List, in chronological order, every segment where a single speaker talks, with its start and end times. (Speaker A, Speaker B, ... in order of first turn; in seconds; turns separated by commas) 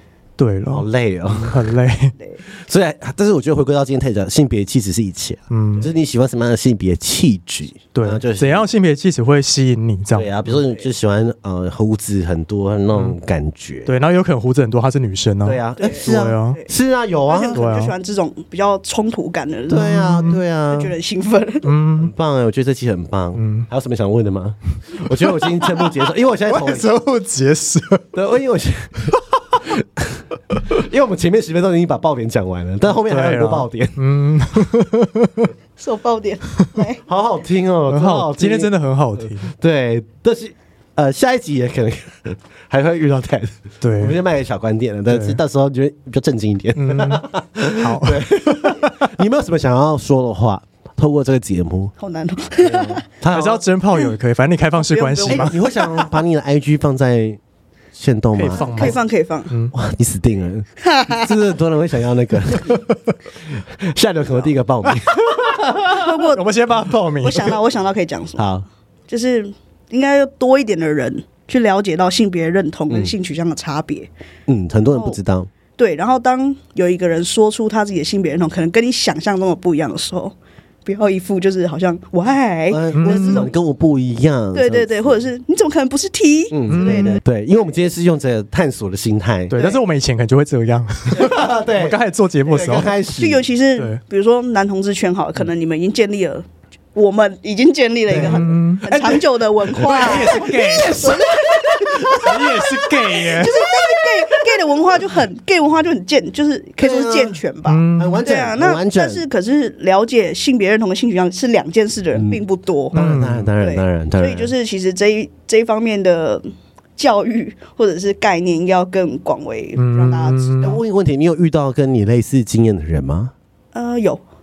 Speaker A: 0.4-2.1, Speaker B: 0.7-1.7, Speaker B: 2.5-8.7, Speaker A: 5.5-5.9, Speaker A: 7.9-10.4, Speaker B: 10.2-13.9, Speaker A: 13.9-16.6, Speaker B: 15.4-17.6, Speaker C: 15.8-16.7, Speaker C: 17.3-21.7, Speaker A: 17.5-17.9, Speaker B: 19.7-20.9, Speaker A: 19.7-20.4, Speaker A: 21.6-22.1, Speaker B: 21.9-26.9, Speaker A: 23.4-23.7, Speaker A: 25.3-25.6, Speaker A: 26.5-28.1, Speaker B: 28.1-29.1, Speaker A: 29.1-29.6, Speaker B: 29.6-34.0, Speaker A: 33.1-35.5, Speaker C: 35.8-37.0, Speaker B: 37.1-51.9, Speaker A: 37.9-39.5, Speaker A: 43.8-44.2, Speaker A: 45.1-45.4, Speaker A: 46.8-49.1, Speaker C: 52.0-53.0, Speaker B: 52.6-53.6, Speaker A: 53.3-55.5, Speaker C: 54.8-56.1, Speaker B: 55.3-57.4, Speaker B: 57.9-59.0, Speaker A: 58.4-59.7, Speaker C: 58.5-59.5, Speaker B: 59.7-62.8, Speaker C: 60.8-61.3, Speaker B: 63.8-65.2, Speaker A: 64.9-67.6, Speaker C: 65.9-66.4, Speaker C: 67.2-68.5, Speaker B: 68.4-68.7, Speaker C: 69.1-74.1, Speaker B: 74.5-75.5, Speaker C: 74.9-75.2, Speaker C: 75.8-83.5, Speaker B: 82.7-85.2, Speaker A: 83.0-83.5, Speaker C: 84.5-87.2, Speaker B: 86.5-89.5, Speaker A: 86.7-87.2, Speaker A: 89.5-92.9, Speaker B: 91.1-93.5, Speaker C: 93.2-113.0, Speaker A: 98.1-98.9, Speaker B: 98.1-102.7, Speaker A: 99.8-101.2, Speaker A: 102.1-103.7, Speaker B: 106.8-107.4, Speaker A: 107.7-108.2, Speaker B: 108.0-109.2, Speaker B: 112.1-112.4, Speaker A: 112.9-113.5, Speaker B: 112.9-114.5, Speaker C: 113.6-120.8, Speaker A: 119.8-120.8, Speaker B: 120.6-123.3, Speaker C: 123.7-124.2